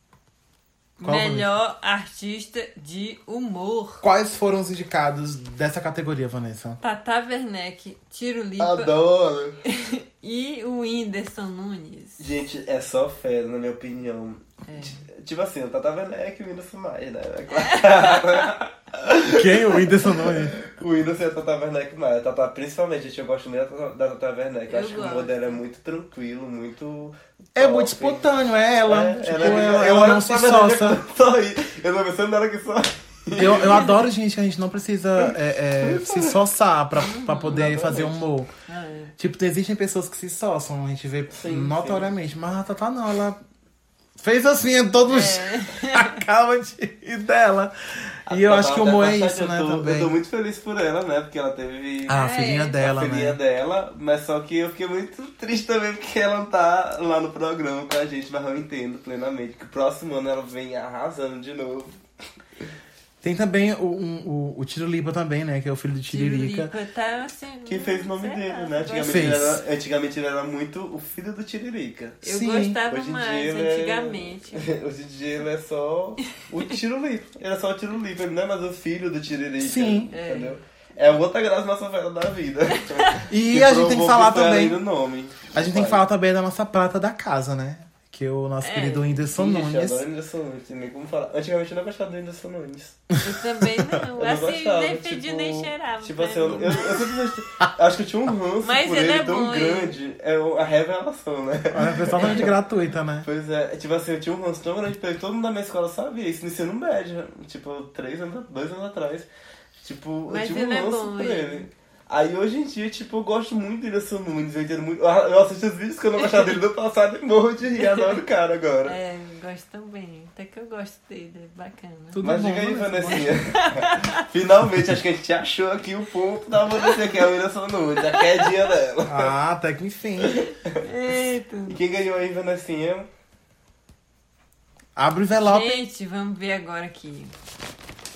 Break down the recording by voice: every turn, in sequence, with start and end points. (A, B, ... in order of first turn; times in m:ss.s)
0:01.0-0:04.0 A
0:01.0-0:01.5 B
0:04.0-0:06.8 B
0:06.8-0:08.9 A
0:08.6-0:09.6 C
0:09.7-0:12.2 A
0:12.2-0:28.3 C
0:14.7-0:15.0 A
0:17.6-0:18.0 A
0:19.2-0:20.6 B
0:24.7-0:25.6 A
0:27.6-0:31.0 B
0:28.9-0:33.9 C
0:33.3-0:38.5 B
0:35.8-0:36.4 C
0:37.0-0:37.9 A
0:37.5-0:38.2 C
0:38.7-0:39.1 A
0:39.2-0:43.4 B
0:41.3-0:42.1 C
0:44.2-0:50.1 B
0:45.1-0:46.2 A
0:48.3-0:52.2 C
0:52.1-0:53.4 B
0:52.1-0:52.8 A
0:52.8-1:02.0 C
1:03.2-1:06.7 B
1:06.1-1:09.6 A
1:07.7-1:12.2 C
1:09.0-1:09.6 B
1:12.2-1:14.7 A
1:12.2-1:12.8 B
1:12.9-1:26.0 C
1:19.6-1:20.1 B
1:20.1-1:20.6 A
1:22.9-1:23.2 A
1:23.3-1:24.8 B
1:25.5-1:30.0 B
1:28.6-1:29.3 A
1:29.3-1:33.0 C
1:33.2-1:37.1 A
1:34.2-1:42.5 C
1:38.6-1:40.0 A
1:41.7-1:43.3 B
1:42.2-1:42.4 A
1:43.2-1:59.0 C
1:50.3-1:51.7 A
1:58.9-2:02.2 A
2:02.1-2:03.4 B
2:02.2-2:09.3 C
2:03.1-2:04.2 A
2:09.1-2:10.4 B
2:10.3-2:10.8 C
2:10.8-2:11.8 A
2:11.7-2:13.1 C
2:15.0-2:15.8 B
2:15.4-2:17.3 A